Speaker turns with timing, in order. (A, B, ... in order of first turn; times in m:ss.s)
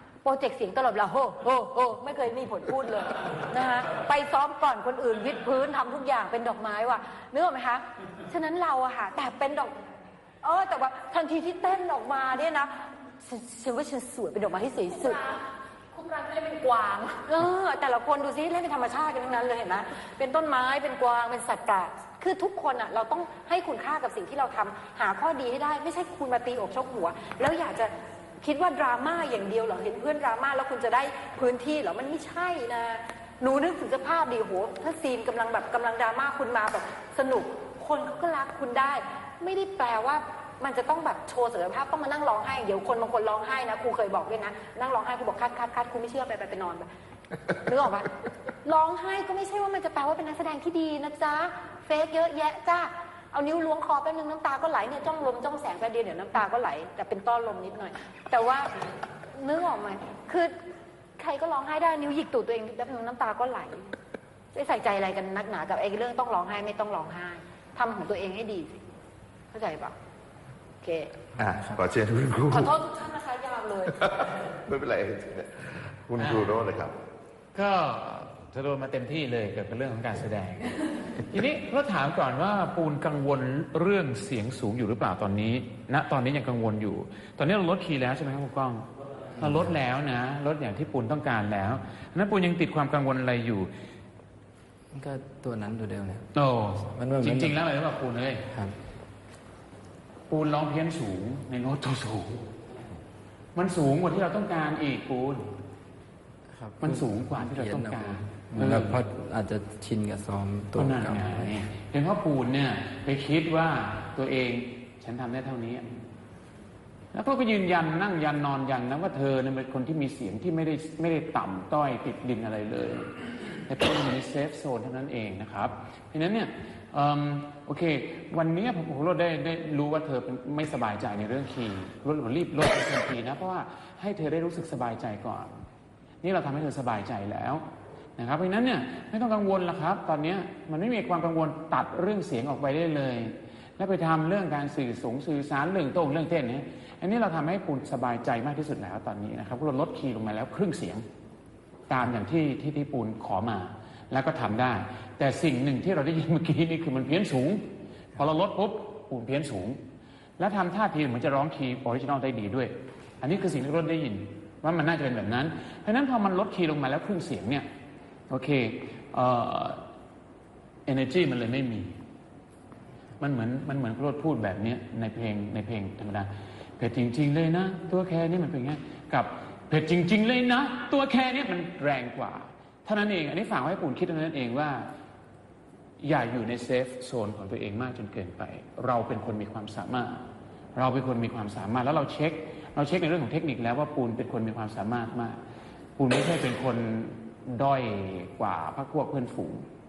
0:00.2-0:09.8 A
0:10.4-0:15.2 A
0:14.9-0:17.2 B
0:17.2-0:46.9 A
0:47.6-0:48.1 A
0:48.6-0:58.8 A
0:59.3-1:00.5 A
1:01.2-1:03.9 A
1:04.5-1:08.8 A
1:09.5-1:09.9 A
1:10.8-1:11.2 A
1:11.4-1:12.7 C
1:12.5-1:14.0 A
1:13.9-1:16.9 C
1:16.2-1:16.5 D
1:17.5-1:33.7 D
1:34.9-1:36.2 E
1:36.3-1:38.5 D
1:36.9-1:37.6 E
1:38.5-1:38.8 E
1:40.3-1:42.4 D
1:43.5-1:45.5 D
1:46.5-1:51.5 E
1:46.8-1:49.0 D
1:50.8-1:55.8 D
1:57.1-2:03.1 D
2:03.7-2:15.5 D
2:16.2-2:17.6 D
2:18.2-2:31.0 D
2:31.9-2:37.6 D
2:38.2-2:39.8 D
2:40.4-2:47.7 D
2:48.3-2:49.8 D
2:50.9-2:51.9 D
2:53.2-3:04.8 D
3:06.0-3:10.2 D
3:10.7-3:15.4 D
3:16.0-3:19.6 D